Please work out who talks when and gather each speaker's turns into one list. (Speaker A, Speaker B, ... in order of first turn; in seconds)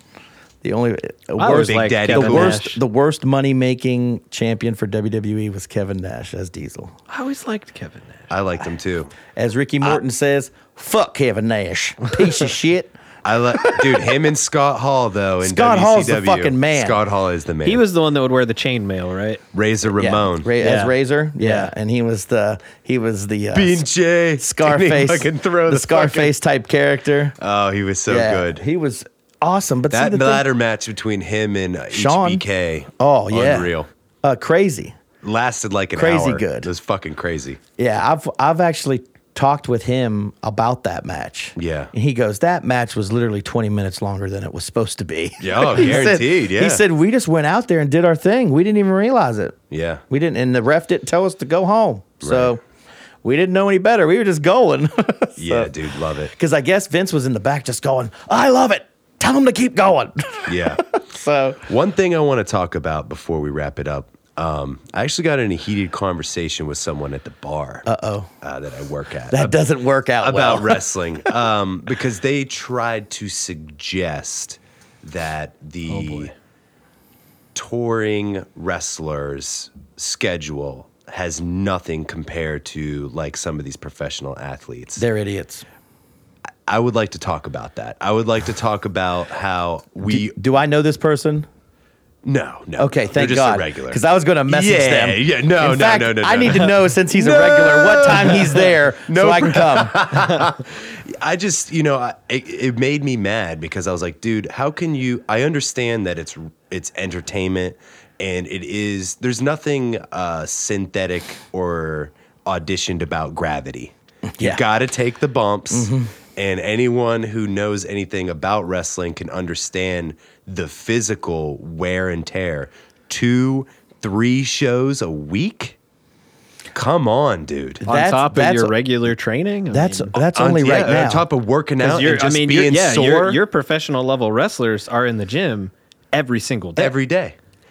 Speaker A: 0.6-7.0, 9.3-12.9, 13.6-14.1, 15.4-17.0, 19.9-23.9, 24.4-27.4, 28.1-30.5, 31.9-32.5, 33.0-33.7, 34.2-35.0, 36.0-36.7, 37.8-49.6, 50.1-52.6, 53.2-55.7, 56.3-61.6, 67.9-68.3, 69.3-71.3, 85.0-85.7, 90.0-91.5, 92.8-100.3, 114.3-114.6, 115.7-116.1, 127.8-128.7, 129.7-131.3
Speaker B: 1.4-2.8, 7.1-8.3, 17.6-19.4, 20.6-21.7, 127.8-130.2, 131.8-136.9
Speaker C: 1.5-2.6, 8.3-9.2, 13.2-17.8, 19.5-20.5, 23.5-26.3, 27.4-28.6, 29.9-33.9, 35.2-37.6, 41.6-41.9, 45.4-46.8, 49.7-50.0, 52.2-52.6, 55.4-56.3, 60.5-61.0, 61.7-67.9, 68.4-69.6, 70.2-76.3, 77.5-85.0, 86.7-90.4, 92.2-125.8, 126.7-127.8, 130.3-133.4, 136.8-137.4